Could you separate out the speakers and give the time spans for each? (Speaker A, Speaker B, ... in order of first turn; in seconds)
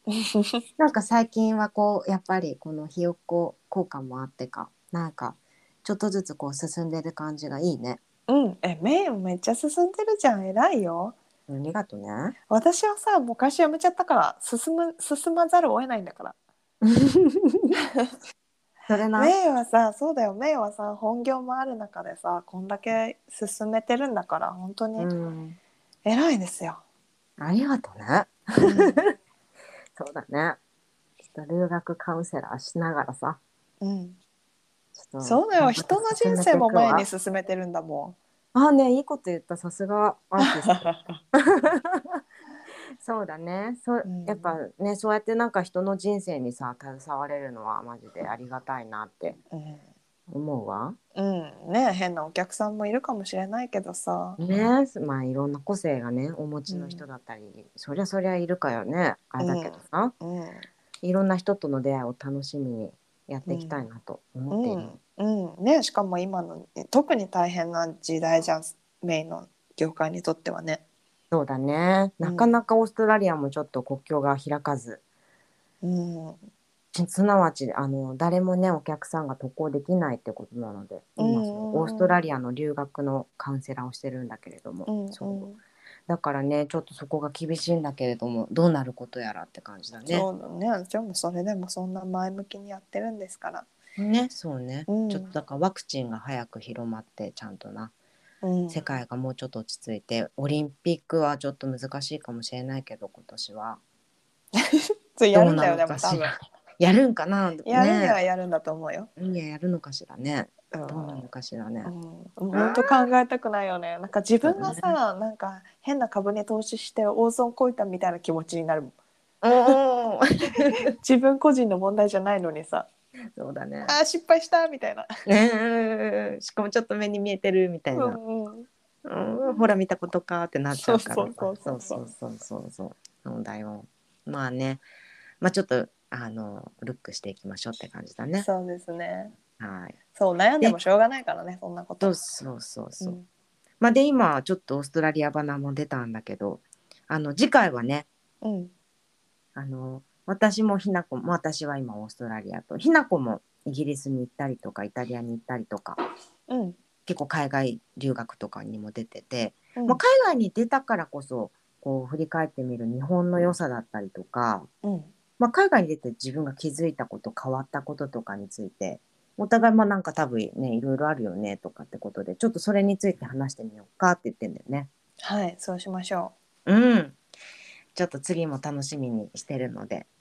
Speaker A: 0.3-0.6, 8.3-11.1, 12.5-16.3, 19.1-25.1, 26.1-26.8, 28.6-29.0, 33.8-34.2, 35.2-38.2, 40.4-41.2, 44.0-44.6, 49.5-49.8, 51.1-54.4, 56.7-57.0, 59.4-60.7, 63.5-63.8, 64.5-70.8, 72.2-72.5, 75.8-76.4, 81.2-82.2, 84.8-85.6, 90.0-93.7, 94.9-95.3, 98.4-98.8, 104.5-106.3, 107.6-109.1, 110.7-111.2, 111.8-118.9, 120.5-122.9, 123.8-125.1, 127.9-128.7, 130.8-132.0, 138.4-139.3, 140.1-142.1, 143.0-143.2, 148.4-148.7, 156.5-156.8, 159.7-160.0, 164.8-165.1, 175.2-176.3
Speaker B: 0.8-8.0, 11.5-12.3, 16.8-17.7, 18.9-19.3, 25.0-25.6, 27.4-29.1, 29.9-30.6, 31.2-33.4, 34.9-37.1, 38.5-42.2, 43.0-49.4, 50.3-51.0, 54.4-60.1, 61.0-65.0, 71.3-75.0, 76.9-85.5, 86.1-90.2, 94.0-97.9, 98.7-103.8, 105.3-108.2, 109.2-111.9, 112.5-113.0, 114.4-115.0, 119.4-120.9, 123.3-124.0, 125.2-128.2, 129.0-134.8, 135.4-138.5, 139.6-140.0, 142.0-143.2, 143.8-148.1, 149.6-156.0, 157.1-164.7, 165.4-174.9, 176.7-177.2, 177.9-180.1